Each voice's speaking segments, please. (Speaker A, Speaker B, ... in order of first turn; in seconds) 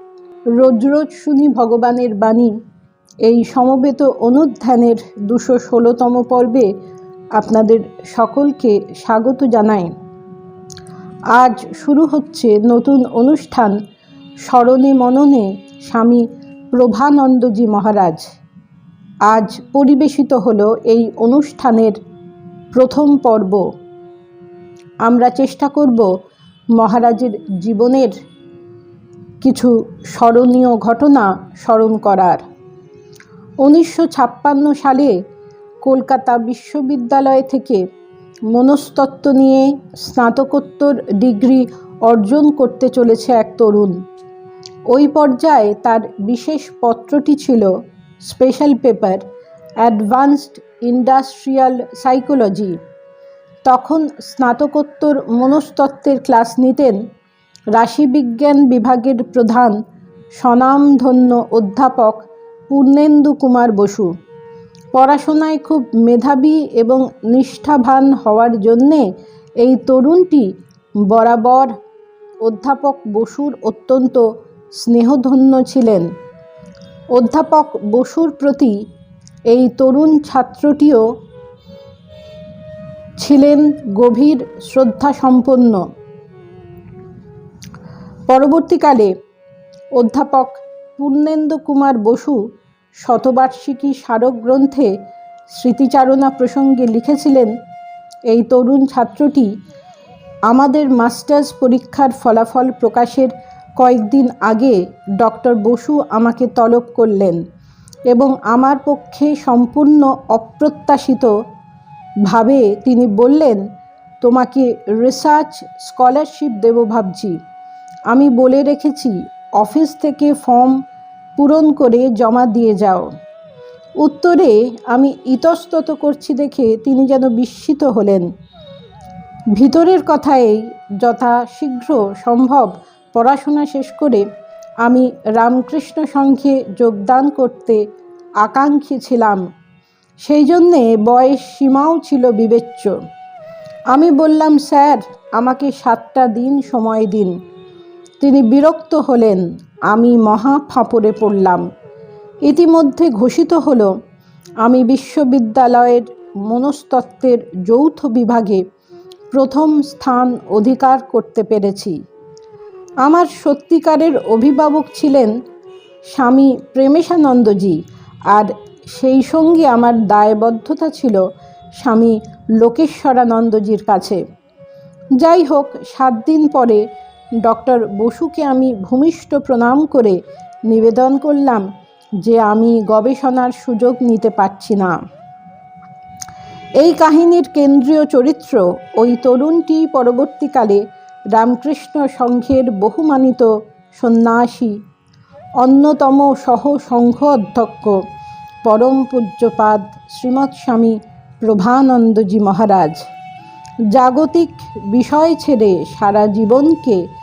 Speaker A: 0.6-2.5, 3.2-6.7, 7.3-9.9, 11.3-13.7, 14.4-16.2, 16.7-18.3, 19.3-22.0, 22.7-23.6, 25.0-26.1, 26.8-28.1, 29.4-32.4, 33.6-35.1, 35.8-37.8, 38.5-43.9, 44.9-47.7, 48.2-49.2, 49.8-52.8, 53.6-57.0, 57.7-59.7, 60.4-64.1, 64.9-69.0, 69.6-70.5, 71.1-71.7, 72.4-74.2, 74.8-76.1, 77.1-78.7, 79.5-81.0, 83.2-85.8, 88.3-89.1, 90.0-92.4, 93.0-94.9, 95.5-97.5, 98.3-99.5, 100.5-107.4, 108.1-111.3, 112.2-113.6, 114.2-117.3, 118.1-120.7, 121.4-123.1, 124.0-128.3, 129.5-134.2, 134.8-137.8, 138.4-139.4, 140.2-142.9, 143.9-147.3, 148.2-151.6, 152.4-153.9, 154.6-158.6, 159.3-161.9, 163.0-165.3, 166.1-167.8, 168.3-171.2, 171.8-174.2, 175.2-176.8, 177.4-181.7, 182.2-185.0, 186.8-190.8, 191.3-194.7, 195.6-198.0, 198.6-203.0, 203.9-207.0